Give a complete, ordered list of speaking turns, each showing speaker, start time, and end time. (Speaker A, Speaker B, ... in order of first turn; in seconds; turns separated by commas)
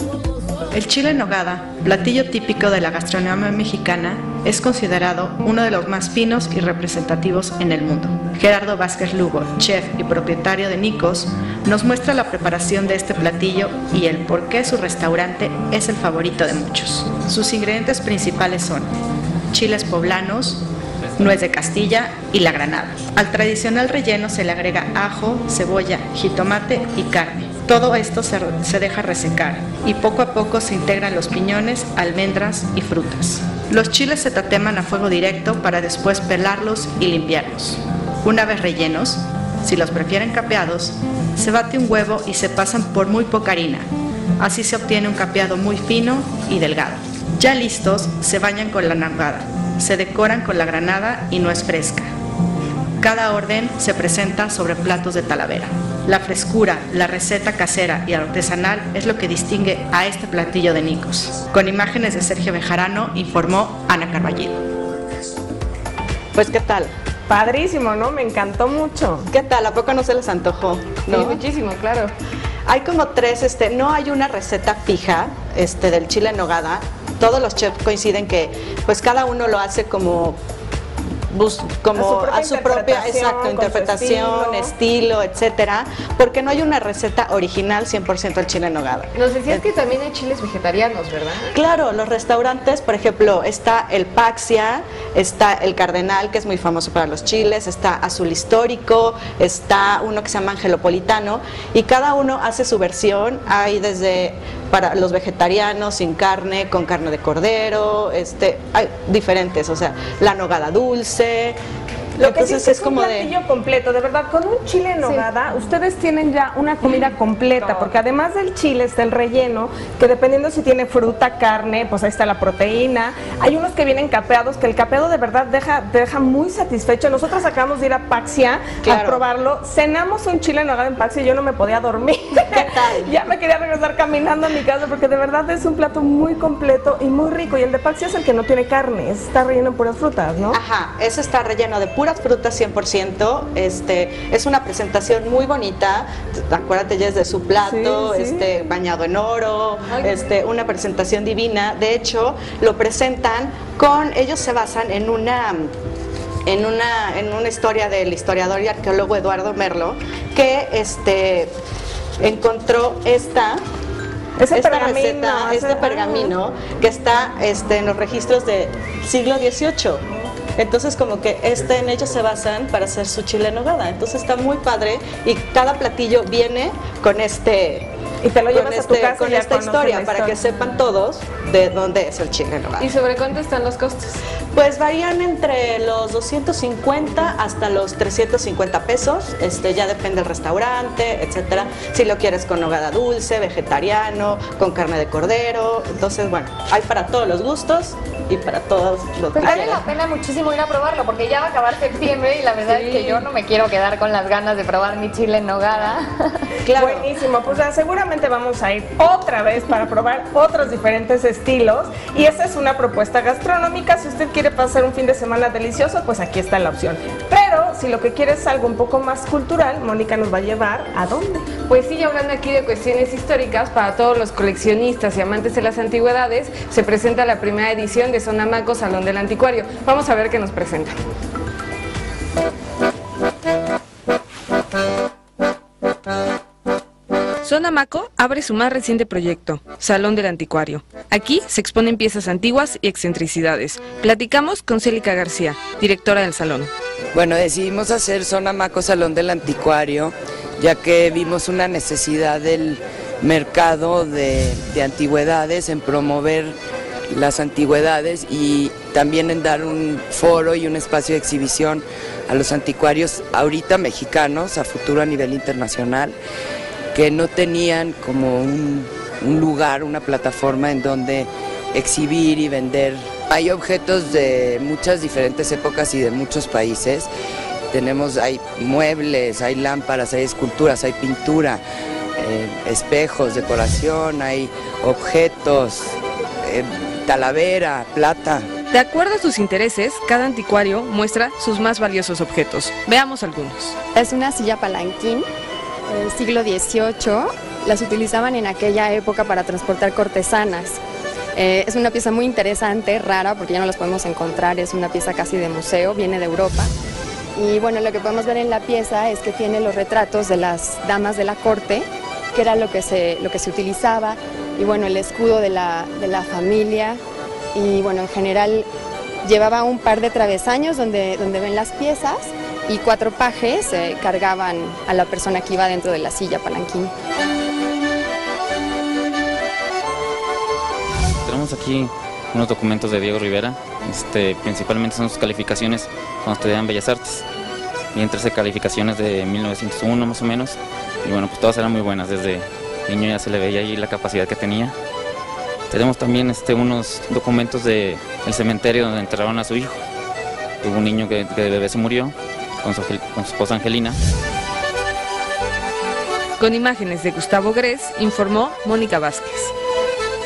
Speaker A: 0.7-18.9, Speaker A: 19.5-20.6, Speaker A: 21.2-43.8, Speaker A: 44.4-52.0, Speaker A: 53.0-64.6, Speaker B: 66.3-66.9, Speaker C: 67.3-69.3, Speaker B: 69.3-71.4, Speaker D: 71.1-72.1, Speaker B: 72.7-80.4, Speaker B: 81.3-89.6, Speaker C: 81.9-84.7, Speaker D: 89.1-91.6, Speaker B: 91.5-111.6, Speaker B: 112.2-113.3, Speaker C: 112.2-140.6, Speaker B: 128.8-129.2, Speaker B: 132.5-133.1, Speaker B: 140.5-142.8, Speaker A: 141.1-143.5, Speaker B: 143.4-155.7, Speaker A: 144.2-145.8, Speaker C: 147.6-148.5, Speaker A: 148.9-149.4, Speaker A: 150.8-152.2, Speaker A: 152.8-153.4, Speaker B: 156.5-161.5, Speaker A: 159.0-159.3, Speaker B: 162.2-163.6, Speaker C: 164.4-166.3, Speaker B: 164.5-170.0, Speaker B: 170.6-177.9, Speaker C: 178.2-180.4, Speaker B: 178.5-182.9, Speaker D: 182.8-184.2, Speaker B: 184.5-199.9, Speaker E: 199.3-205.8, Speaker F: 200.2-200.6, Speaker B: 202.7-203.3, Speaker F: 203.4-204.5, Speaker B: 206.6-207.1, Speaker C: 206.7-221.5, Speaker D: 221.6-231.0, Speaker D: 237.4-246.7, Speaker G: 247.1-256.6, Speaker G: 257.1-266.1, Speaker G: 266.9-277.1, Speaker G: 277.7-281.6, Speaker G: 282.2-288.4, Speaker D: 288.7-293.8, Speaker F: 293.9-295.2, Speaker F: 295.9-300.8, Speaker F: 301.4-306.7, Speaker F: 307.4-317.0, Speaker F: 317.5-318.7, Speaker F: 319.2-326.9, Speaker H: 331.2-337.2, Speaker H: 337.9-344.7, Speaker H: 345.7-349.8, Speaker H: 350.6-354.0, Speaker D: 356.4-359.5